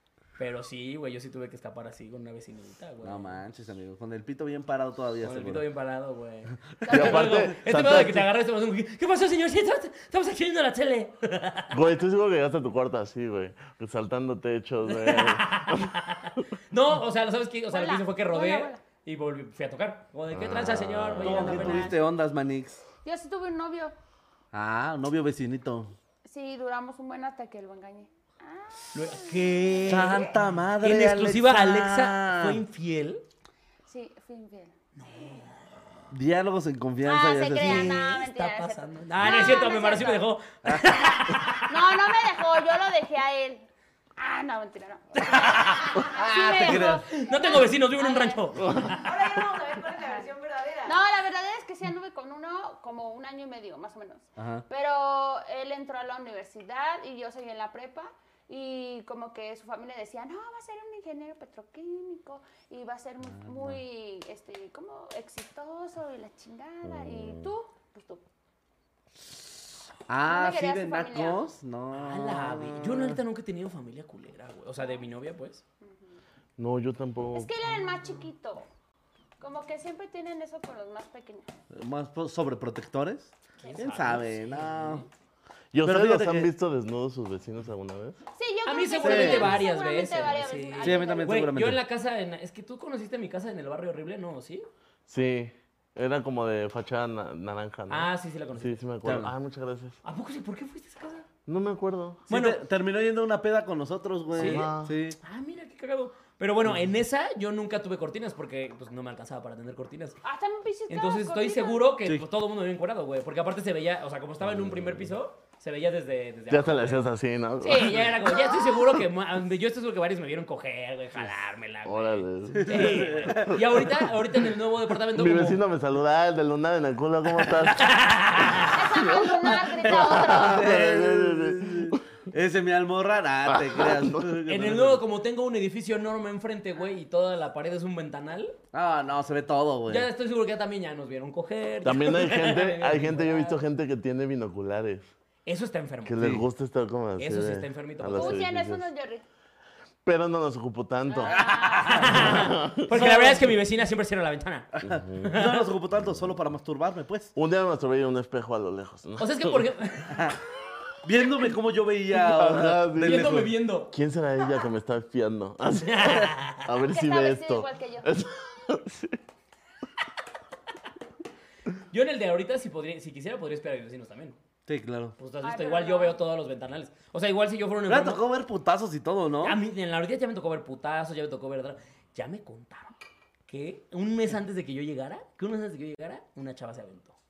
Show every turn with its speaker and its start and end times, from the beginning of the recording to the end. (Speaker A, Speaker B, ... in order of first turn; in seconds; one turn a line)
Speaker A: 0.4-3.4
Speaker B: 3.0-5.6
Speaker A: 5.2-11.7
Speaker C: 6.8-7.3
Speaker D: 6.9-8.3
Speaker D: 11.7-15.9
Speaker A: 14.9-22.0
Speaker C: 17.7-18.8
Speaker D: 20.3-21.6
Speaker B: 21.2-22.8
Speaker C: 21.6-21.9
Speaker C: 23.0-23.9
Speaker B: 24.5-25.9
Speaker C: 26.2-30.2
Speaker A: 28.9-33.2
Speaker B: 29.9-32.6
Speaker C: 33.9-34.7
Speaker A: 34.9-35.8
Speaker B: 36.1-38.0
Speaker C: 37.0-40.2
Speaker A: 37.6-41.7
Speaker B: 39.2-39.6
Speaker B: 40.6-41.5
Speaker C: 41.7-48.6
Speaker A: 45.1-49.1
Speaker B: 46.0-47.0
Speaker E: 48.9-51.0
Speaker C: 50.8-68.2
Speaker B: 54.4-54.6
Speaker B: 63.3-63.8
Speaker D: 66.8-67.5
Speaker B: 70.1-73.2
Speaker C: 70.2-71.4
Speaker A: 71.9-75.6
Speaker C: 74.8-75.1
Speaker C: 75.8-76.2
Speaker D: 76.6-77.5
Speaker C: 77.3-78.7
Speaker C: 79.4-81.5
Speaker B: 81.7-85.0
Speaker A: 83.6-85.1
Speaker D: 85.7-88.2
Speaker B: 85.8-86.5
Speaker C: 88.3-91.4
Speaker A: 88.7-94.7
Speaker B: 89.0-89.6
Speaker B: 90.8-91.8
Speaker D: 95.1-100.0
Speaker A: 97.9-98.8
Speaker B: 99.0-99.3
Speaker A: 100.0-101.3
Speaker D: 101.5-102.3
Speaker A: 102.3-102.6
Speaker B: 102.3-105.2
Speaker A: 104.3-110.2
Speaker D: 104.3-104.9
Speaker C: 110.2-111.9
Speaker A: 110.9-117.0
Speaker D: 114.4-115.1
Speaker D: 116.5-118.2
Speaker A: 117.6-125.6
Speaker C: 117.6-119.0
Speaker D: 121.8-124.0
Speaker B: 122.5-123.7
Speaker D: 125.1-128.0
Speaker A: 127.6-128.9
Speaker C: 128.7-130.8
Speaker D: 128.8-132.0
Speaker B: 129.8-135.0
Speaker D: 133.5-134.4
Speaker A: 134.5-138.6
Speaker B: 138.7-140.1
Speaker A: 139.9-143.6
Speaker D: 141.8-145.1
Speaker A: 145.4-146.3
Speaker D: 146.0-148.8
Speaker B: 146.2-146.4
Speaker A: 147.2-148.4
Speaker C: 148.1-149.2
Speaker D: 150.0-151.5
Speaker C: 151.1-152.0
Speaker B: 151.3-152.4
Speaker A: 151.8-154.7
Speaker D: 152.0-153.0
Speaker B: 152.9-153.5
Speaker B: 154.7-157.3
Speaker D: 154.8-155.3
Speaker A: 155.2-155.7
Speaker D: 157.3-159.7
Speaker A: 159.2-160.3
Speaker B: 160.1-160.4
Speaker B: 161.0-163.5
Speaker D: 162.1-169.2
Speaker A: 163.0-163.9
Speaker A: 165.8-166.7
Speaker C: 166.9-168.1
Speaker A: 171.9-174.4
Speaker B: 174.7-175.2
Speaker A: 175.2-178.2
Speaker C: 175.4-176.2
Speaker B: 177.9-179.6
Speaker A: 179.4-182.9
Speaker A: 183.5-187.2